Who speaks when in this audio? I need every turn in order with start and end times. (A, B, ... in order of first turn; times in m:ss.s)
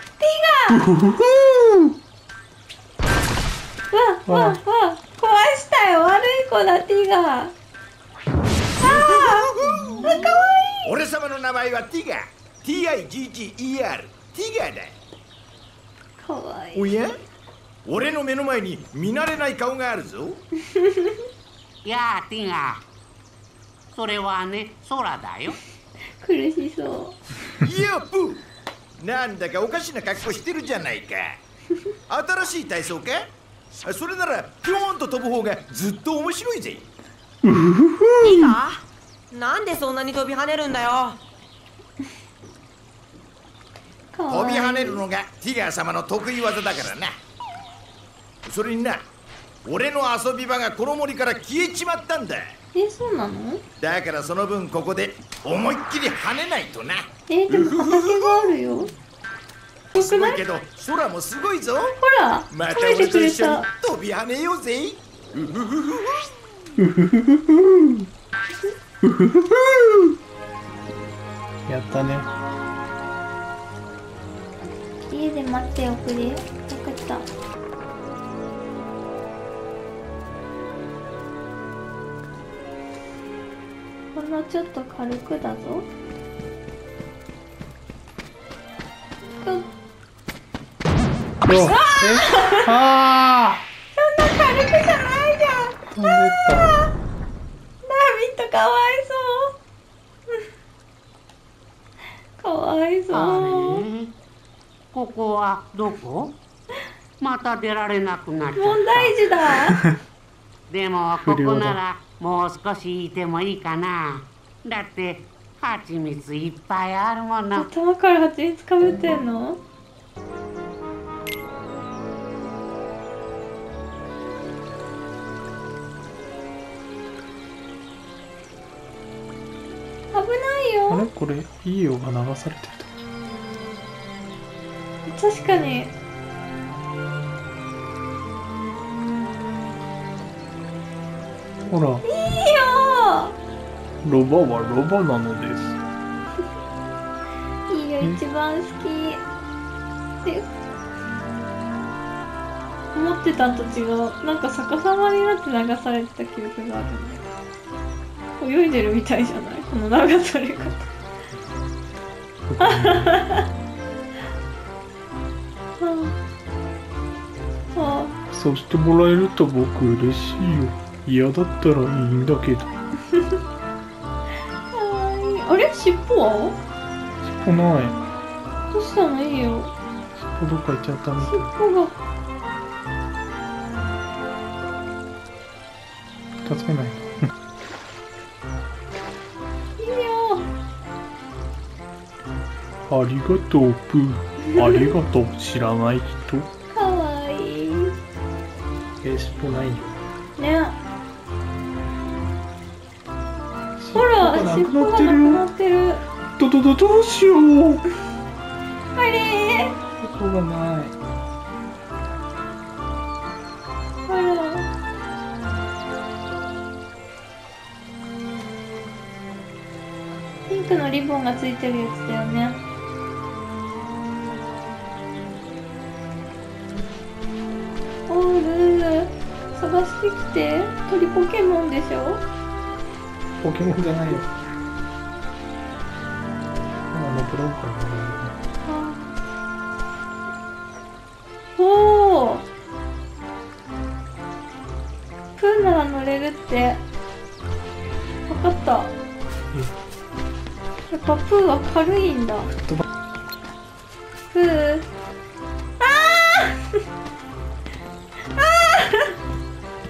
0:00.2-0:00.9 A
0:00.7-0:01.9 B
0:03.9-0:07.5 A
0:04.3-0:04.6 B
0:08.8-0:10.9 A
0:08.8-0:10.3 C
0:10.8-0:15.0 C
0:16.2-0:16.9 A
0:16.7-0:17.2 C
0:17.8-0:20.4 C
0:21.8-0:22.8 D
0:23.9-0:25.6 D
0:26.2-0:27.2 A
0:27.6-0:28.4 C
0:29.0-0:31.4 C
0:32.1-0:33.3 C
0:33.8-0:36.9 C
0:37.4-0:38.6 B
0:38.2-0:41.2 E
0:44.1-0:45.0 A
0:44.3-0:47.1 C
0:48.5-0:49.0 C
0:49.6-0:52.6 C
0:52.7-0:53.6 A
0:53.8-0:58.6 C
0:57.3-0:58.9 A
0:59.9-1:00.4 A
0:59.9-1:02.0 C
1:02.0-1:03.7 A
1:02.5-1:06.2 C
1:06.8-1:08.1 B
1:09.0-1:10.1 B
1:11.7-1:12.3 B
1:15.0-1:17.3 A
1:24.1-1:25.9 A
1:29.3-1:29.7 A
1:31.4-1:33.7 B
1:31.7-1:32.7 A
1:34.0-1:36.8 A
1:35.9-1:36.7 B
1:37.8-1:39.5 A
1:42.4-1:43.8 A
1:43.1-1:44.1 D
1:44.9-1:46.3 D
1:47.2-1:49.3 D
1:48.6-1:49.8 A
1:50.7-1:57.7 D
1:51.2-1:51.8 B
1:57.6-1:59.6 A
2:10.1-2:11.1 A
2:10.9-2:12.9 B
2:15.1-2:15.9 A
2:21.7-2:22.0 B
2:22.1-2:23.4 A
2:24.0-2:25.8 B
2:27.7-2:29.2 A
2:33.0-2:37.2 A
2:38.4-2:40.9 A
2:42.5-2:43.2 B
2:42.6-2:43.4 A
2:45.8-2:46.2 A
2:47.7-2:48.1 A
2:48.3-2:52.7 B
2:54.7-2:56.6 A
2:57.2-2:58.0 B
2:58.7-2:59.7 A
3:00.2-3:01.5 B
3:01.2-3:02.0 A
3:06.4-3:07.3 B
3:09.8-3:10.5 A
3:12.9-3:16.5 B
3:14.4-3:14.9 A
3:16.7-3:17.9 A
3:19.0-3:19.9 B
3:20.4-3:20.8 A
3:23.8-3:25.5 B
3:24.0-3:26.0 A
3:26.4-3:27.8 B
3:29.0-3:29.8 A
3:30.0-3:31.0 B
3:34.1-3:34.7 A
3:40.5-3:42.6 A
3:48.1-3:52.2 A
3:53.4-3:54.3 B
3:56.9-3:58.4 B
3:58.7-3:59.2 A
4:01.6-4:02.4 A
4:05.4-4:06.8 A
4:08.3-4:08.9 A
4:10.9-4:12.5 A
4:12.5-4:12.8 B
4:14.3-4:14.8 A
4:15.8-4:16.6 A
4:18.4-4:19.2 A